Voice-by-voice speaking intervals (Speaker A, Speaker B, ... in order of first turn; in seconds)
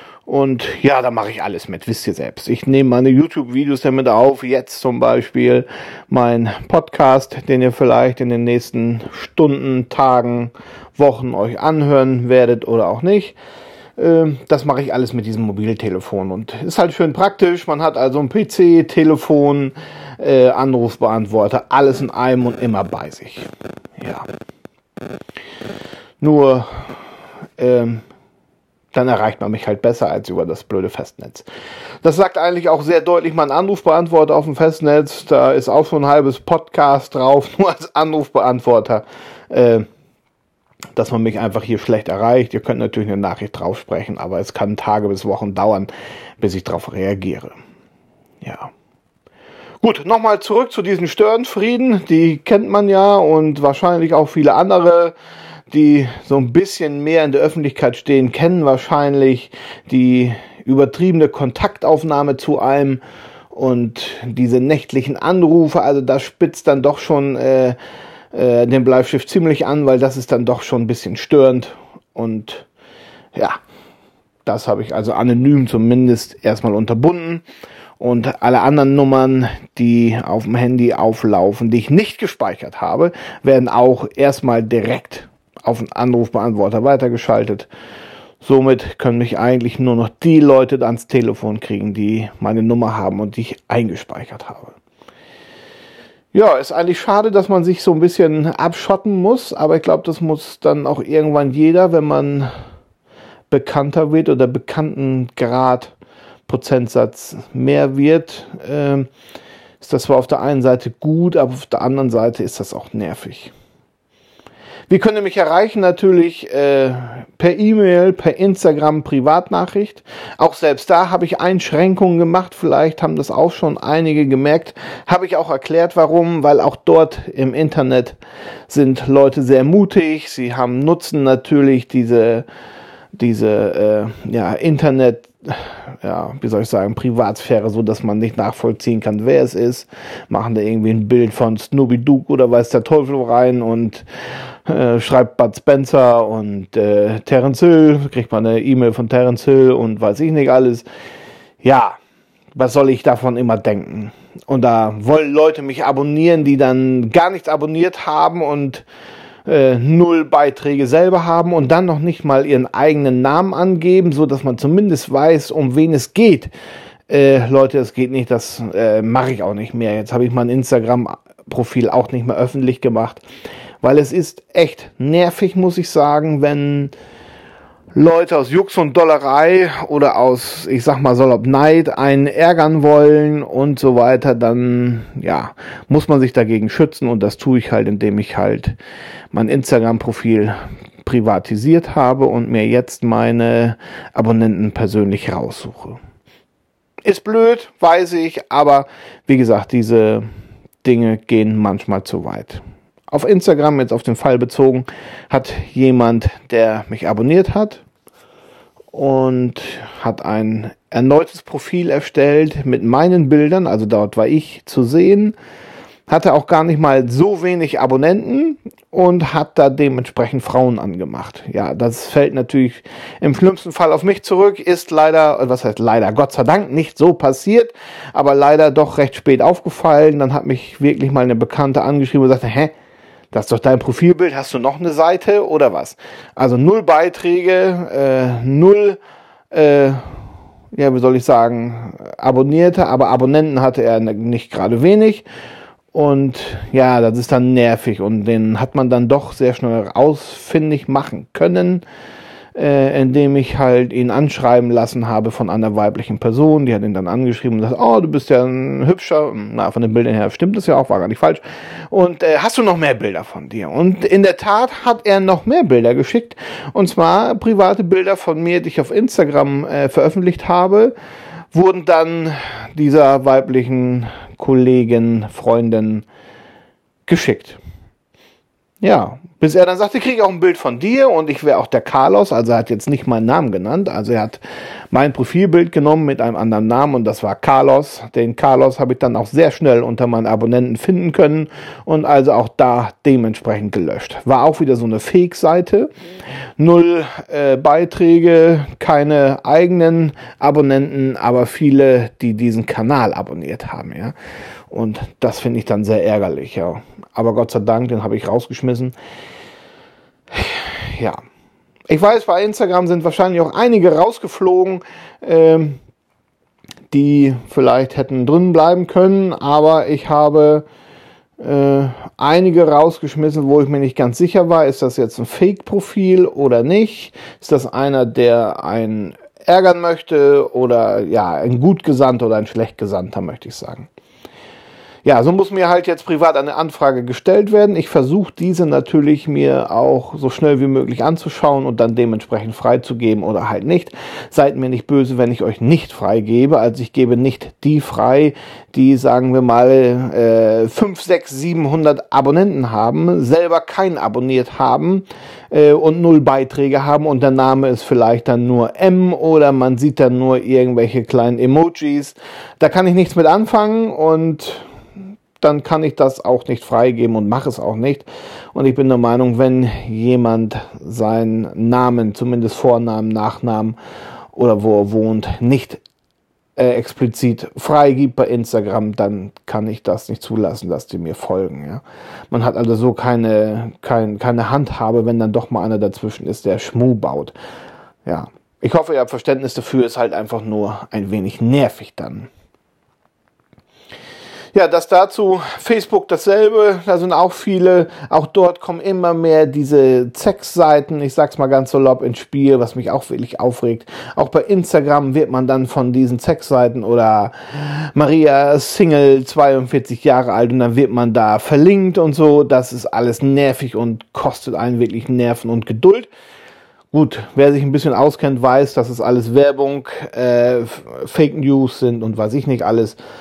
Speaker A: 0.2-13.4, 14.0-24.3, 26.2-26.9, 27.6-28.0, 28.9-31.4, 32.0-39.9, 41.0-47.5, 48.4-48.7, 49.8-55.1, 55.7-63.0, 63.5-67.8, 68.3-72.7, 73.3-73.6, 74.5-77.4, 78.0-87.7, 88.4-94.8, 96.3-102.5, 103.5-105.9, 106.5-109.1, 109.8-113.5, 114.9-128.2, 128.7-132.4, 133.1-144.1, 144.7-150.8, 151.6-152.0, 152.5-158.8, 159.4-166.5, 167.1-173.2, 173.8-176.9, 177.9-188.8, 189.3-196.0, 197.0-200.3, 200.8-207.8, 208.9-215.3, 216.1-232.7, 233.3-239.0, 239.5-240.2, 240.7-245.2, 245.9-251.8, 252.5-270.9, 271.5-276.1, 277.1-277.6, 278.8-295.9, 296.6-304.1, 304.7-308.9, 310.3-311.2, 311.9-315.8, 316.9-320.6, 321.4-333.9, 335.0-364.7, 365.4-373.8, 374.3-375.8, 376.6-387.3, 388.1-392.3, 394.5-416.1, 416.9-422.9